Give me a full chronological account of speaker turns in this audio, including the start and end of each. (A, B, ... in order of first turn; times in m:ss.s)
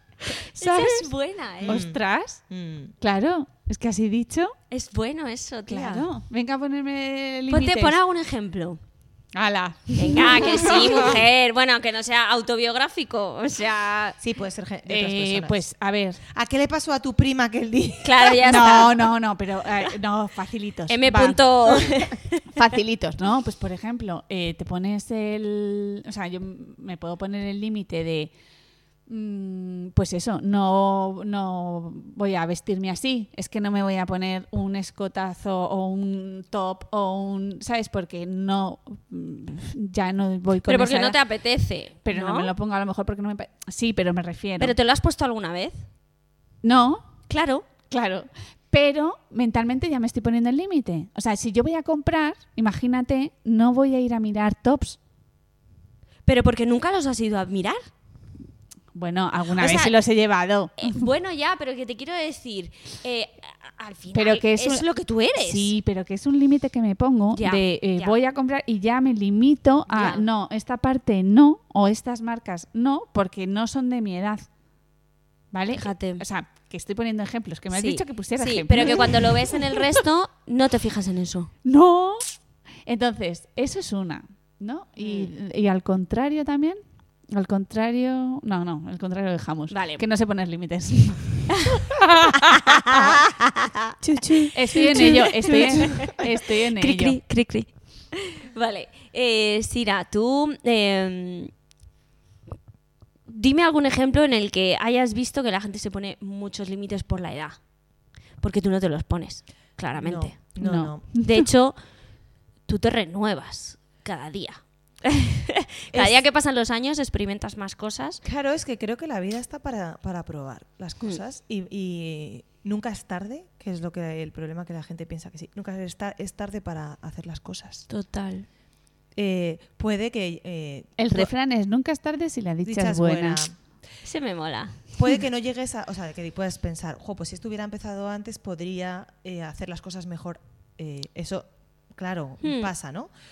0:00.3-0:01.1 A
0:00.6-0:01.8 B
0:01.6-0:02.9 C
0:01.6-0:02.4 A
0:03.0-0:04.5 A
0:04.7-0:06.1 B
0:05.7-0:08.0 A
0:07.5-0:08.8 B
0:09.3-0:11.1 A
0:10.0-0:14.2 B
0:10.7-0:11.1 C
0:14.2-0:15.6 C
0:14.9-0:16.2 A
0:16.2-0:18.9 C
0:18.0-0:19.0 B
0:18.4-0:21.4 A
0:20.9-0:22.4 B
0:22.5-0:28.3 A
0:29.0-0:41.2 A
0:40.7-0:42.5 B
0:42.0-0:44.7 A
0:44.6-0:45.8 B
0:46.6-0:47.1 A
0:47.3-0:47.7 B
0:47.9-0:55.0 A
0:56.2-0:57.8 B
0:58.9-1:01.1 A
0:59.5-1:00.0 B
1:00.8-1:05.8 B
1:04.1-1:04.8 A
1:05.4-1:14.5 A
1:07.3-1:08.1 B
1:09.9-1:10.2 B
1:15.5-1:19.8 A
1:15.7-1:16.2 B
1:17.7-1:21.5 B
1:21.6-1:26.8 A
1:25.0-1:25.3 B
1:27.3-1:33.0 A
1:29.7-1:30.0 B
1:32.4-1:33.2 B
1:34.0-1:41.5 B
1:34.2-1:36.0 C
1:34.5-1:37.2 A
1:43.3-1:47.6 B
1:48.4-1:51.8 B
1:50.0-1:51.1 C
1:50.6-1:51.5 A
1:52.6-1:58.2 B
1:55.9-1:56.2 C
1:58.2-2:07.9 C
2:07.9-2:08.5 B
2:09.1-2:11.3 C
2:11.0-2:13.4 A
2:12.6-2:13.6 C
2:14.0-2:14.8 B
2:14.9-2:23.1 C
2:22.4-2:22.7 B